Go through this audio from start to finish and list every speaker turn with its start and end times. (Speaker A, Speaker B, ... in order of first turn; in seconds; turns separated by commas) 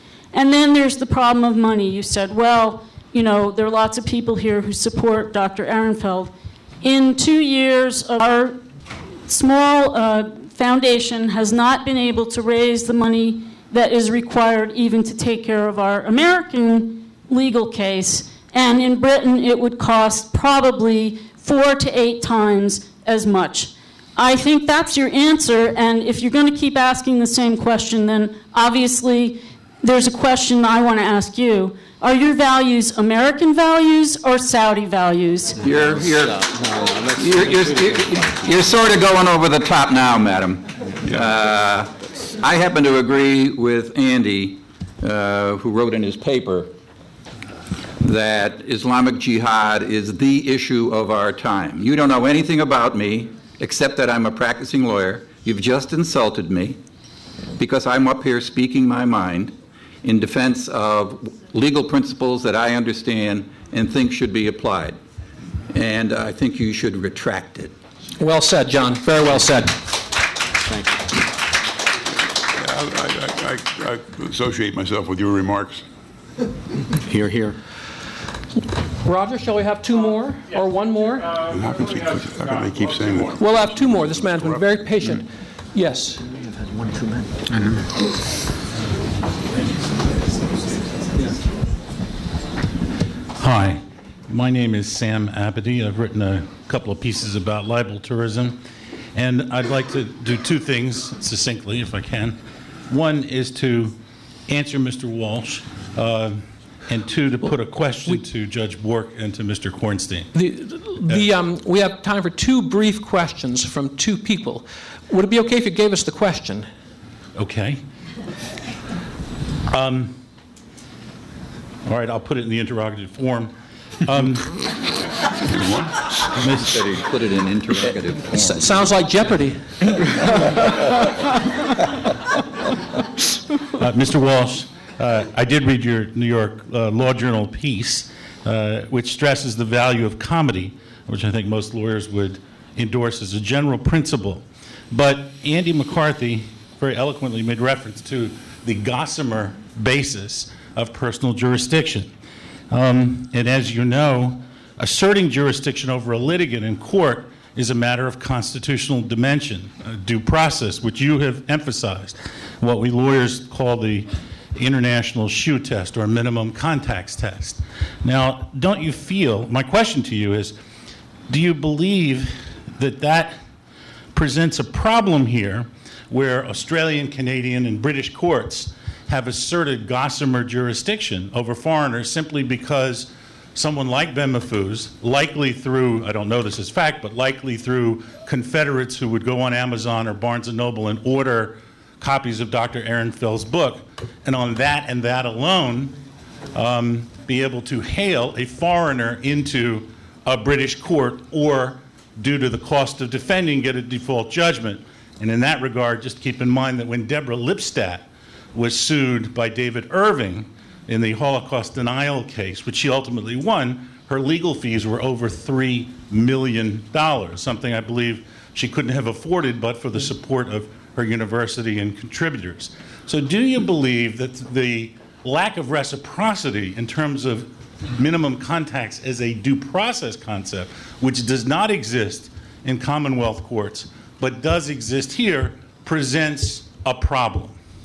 Speaker A: 0.3-8.6, Speaker A: 9.3-35.6, Speaker B: 35.6-36.4, Speaker C: 35.7-38.1, Speaker B: 37.2-46.7, Speaker B: 48.0-56.8, Speaker B: 57.6-65.0, Speaker B: 65.7-67.8, Speaker D: 68.2-69.8, Speaker C: 70.7-71.0, Speaker E: 72.6-75.8, Speaker C: 77.0-77.6, Speaker D: 79.0-81.4, Speaker E: 81.5-83.4, Speaker D: 83.3-86.3, Speaker F: 93.4-98.6, Speaker F: 99.2-104.0, Speaker F: 104.5-110.3, Speaker D: 110.3-116.7, Speaker F: 117.4-117.8, Speaker F: 119.7-120.2, Speaker F: 121.8-123.5, Speaker F: 124.0-124.6, Speaker F: 125.6-126.8, Speaker B: 126.5-128.8, Speaker D: 128.3-129.9, Speaker F: 133.8-152.1, Speaker F: 152.7-170.6, Speaker F: 171.3-173.4, Speaker F: 174.1-196.0, Speaker F: 196.5-237.6